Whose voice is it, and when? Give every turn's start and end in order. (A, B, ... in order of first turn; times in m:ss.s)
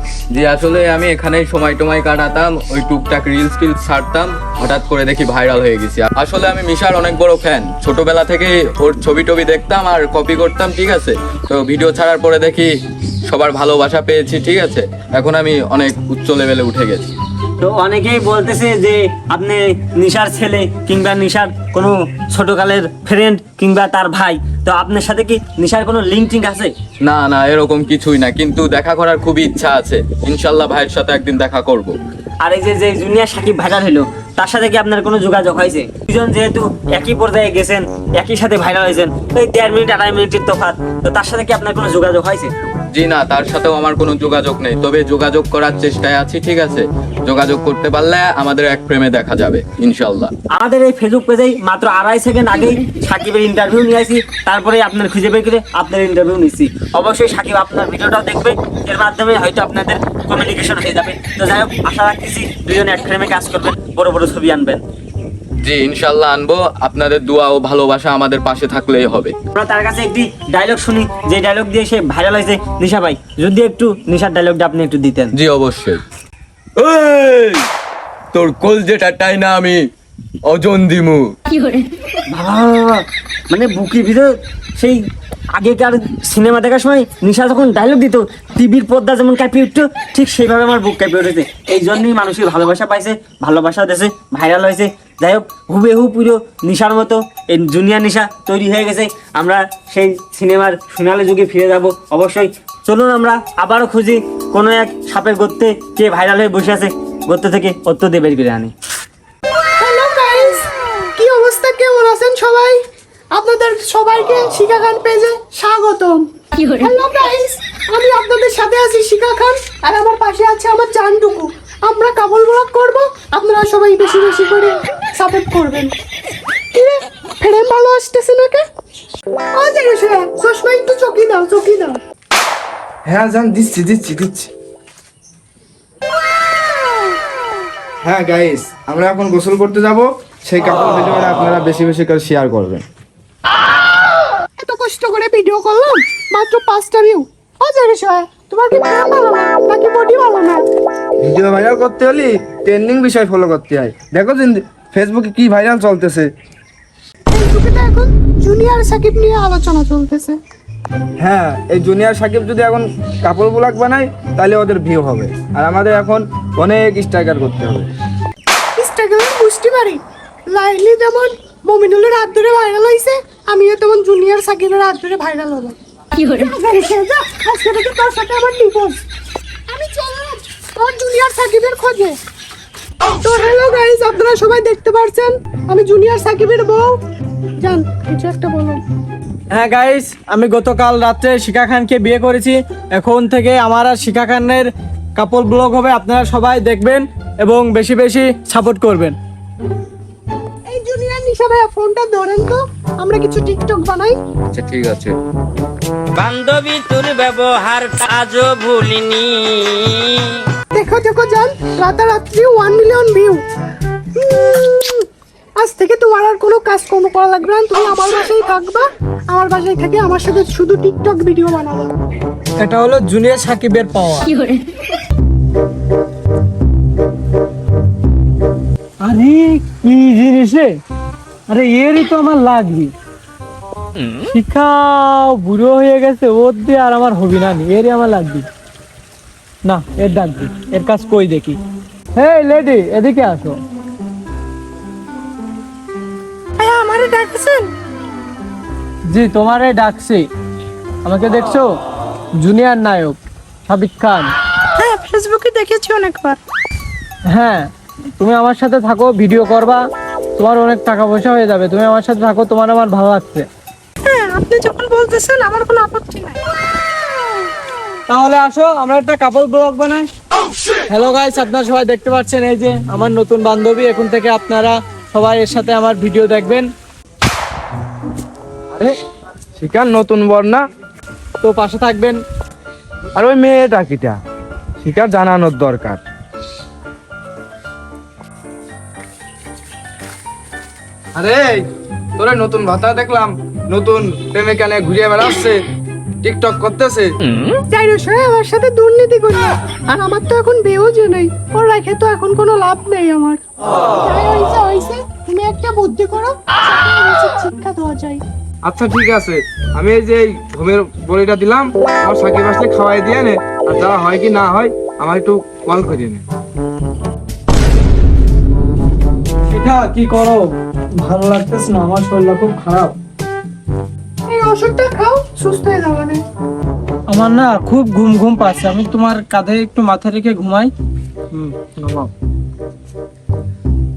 0:00.3-0:12.7 A
0:13.3-0:17.1 A
0:17.6-0:26.7 B
0:27.0-0:32.0 A
0:32.4-0:42.5 B
0:42.9-0:50.3 A
0:50.5-1:04.8 B
1:05.6-1:09.3 A
1:09.6-1:15.3 B
1:15.4-1:16.0 A
1:16.8-1:17.7 A
1:18.3-1:19.9 A
1:20.5-1:21.3 A
1:22.3-1:25.0 B
1:25.6-1:48.7 B
1:49.8-1:50.7 C
1:51.2-1:52.8 C
1:53.3-2:05.9 C
2:06.7-2:08.6 C
2:09.6-2:12.0 C
2:13.1-2:14.5 D
2:18.0-2:22.8 D
2:24.6-2:30.6 C
2:31.2-2:36.3 D
2:37.3-2:40.4 C
2:41.2-2:47.9 D
2:48.8-2:59.0 C
2:59.7-3:02.2 C
3:03.2-3:07.0 C
3:07.6-3:08.8 C
3:09.5-3:19.2 E
3:20.7-3:24.2 C
3:24.5-3:25.1 A
3:26.2-3:30.2 F
3:30.7-3:33.4 C
3:34.2-3:35.1 C
3:35.6-3:41.9 C
3:42.6-3:44.5 E
3:49.0-3:50.8 E
3:51.5-3:52.9 E
3:54.3-3:58.5 E
3:59.6-4:01.6 E
4:02.2-4:03.6 E
4:06.6-4:07.6 C
4:09.1-4:10.3 E
4:11.0-4:11.7 E
4:12.4-4:14.3 E
4:14.8-4:16.4 C
4:17.3-4:19.8 E
4:20.4-4:23.5 E
4:24.0-4:26.4 C
4:28.1-4:30.1 E
4:30.9-4:36.7 E
4:39.6-4:40.6 D
4:41.4-4:42.2 E
4:43.2-4:44.2 D
4:44.8-4:46.0 D
4:51.2-4:51.7 D
4:52.2-4:55.6 D
4:56.2-4:57.1 D
4:57.7-5:03.4 C
5:04.0-5:08.2 C
5:08.6-5:16.2 D
5:19.5-5:23.0 E
5:24.3-5:26.2 C
5:27.1-5:30.7 E
5:31.3-5:32.1 E